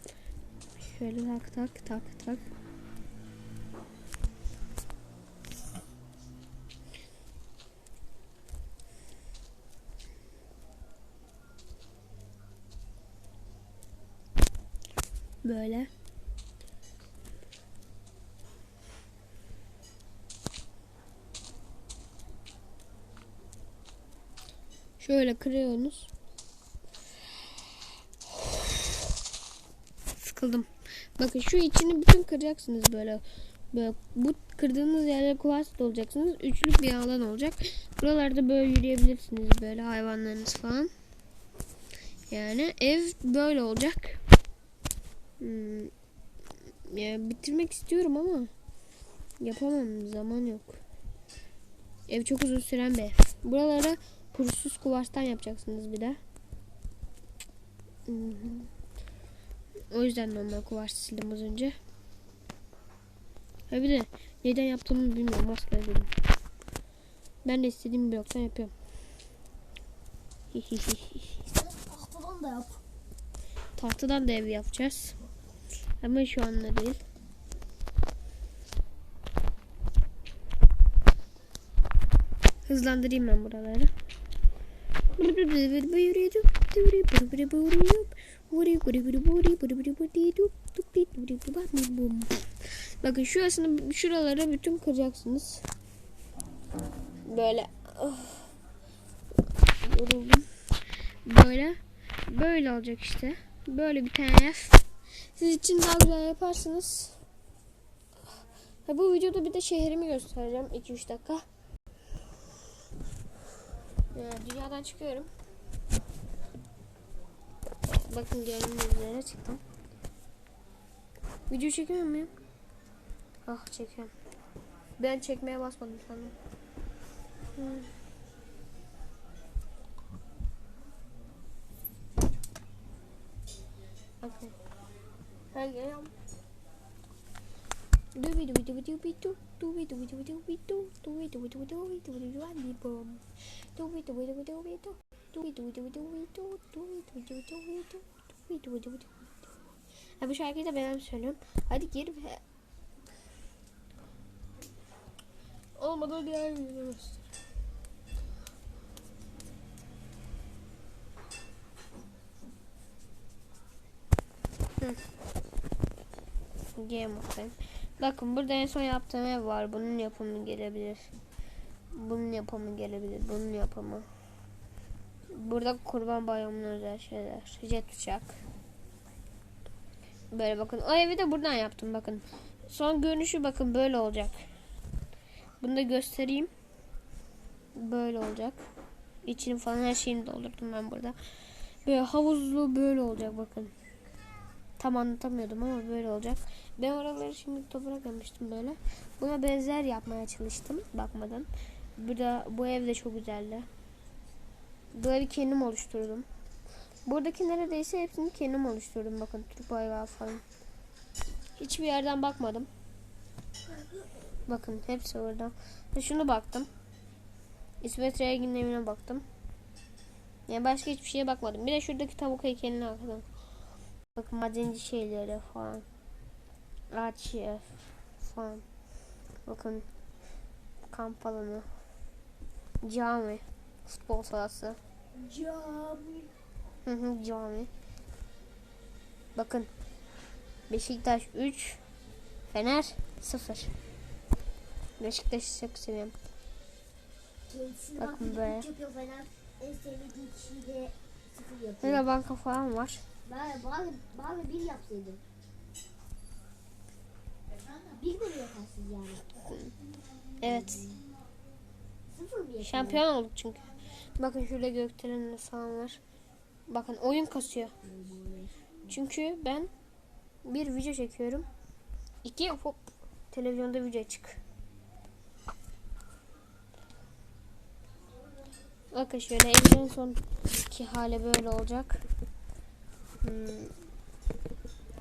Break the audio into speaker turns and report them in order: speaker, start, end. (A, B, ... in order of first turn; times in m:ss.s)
0:00.9-0:02.4 A
0:15.4-0:15.9 A
0:25.0-0:26.1 A
0:30.2-0:40.9 A
0:42.3-0:44.2 A
0:45.4-0:45.9 A
0:46.9-0:48.5 A
0:49.4-0:50.8 A
0:52.1-0:56.2 A
0:58.0-0:58.7 A
0:59.9-1:01.8 A
1:03.7-1:06.1 A
1:07.4-1:08.7 A
1:10.5-1:11.4 A
1:11.4-1:12.8 B
1:13.8-1:15.2 A
1:16.0-1:17.0 A
1:22.7-1:23.9 A
1:25.1-1:35.6 A
1:37.3-1:38.5 A
1:39.8-1:40.5 A
1:41.2-1:44.8 A
1:45.3-1:47.2 A
1:48.8-1:51.4 A
1:54.1-1:55.3 A
1:57.8-1:59.6 A
2:01.5-2:02.3 A
2:03.4-2:04.1 A
2:05.0-2:06.3 A
2:07.6-2:07.9 A
2:14.2-2:14.5 A
2:15.5-2:16.1 A
2:18.1-2:23.2 A
2:23.7-2:29.5 A
2:30.2-2:32.4 A
2:35.8-2:37.3 A
2:46.7-2:51.1 A
2:51.9-2:54.0 A
2:55.3-2:58.4 A
3:00.3-3:04.4 A
3:05.6-3:06.5 A
3:07.8-3:08.6 A
3:09.2-3:11.2 A
3:11.8-3:13.7 A
3:14.8-3:23.7 A
3:24.9-3:26.2 A
3:27.0-3:30.4 A
3:31.6-3:32.7 A
3:34.4-3:36.7 A
3:37.8-3:39.2 A
3:40.5-3:43.2 A
3:44.1-3:45.8 A
3:46.9-3:47.7 A
3:48.2-3:48.6 A
3:49.5-3:49.8 A
3:50.9-3:51.6 A
3:52.8-3:54.8 A
3:55.1-3:56.3 B
3:56.8-3:57.7 A
3:59.3-3:59.7 A
4:00.7-4:01.8 A
4:02.5-4:03.7 A
4:05.0-4:06.1 A
4:07.5-4:12.0 B
4:08.0-4:08.7 A
4:11.8-4:13.0 A
4:13.2-4:15.2 B
4:17.8-4:19.3 B
4:19.4-4:19.7 A
4:20.4-4:20.9 A
4:22.1-4:23.0 B
4:22.6-4:23.7 A
4:24.2-4:26.0 A
4:26.7-4:27.7 A
4:27.8-4:28.5 B
4:28.9-4:29.7 A
4:30.4-4:31.5 A
4:32.2-4:34.4 A
4:38.9-4:42.0 A
4:43.2-4:43.7 A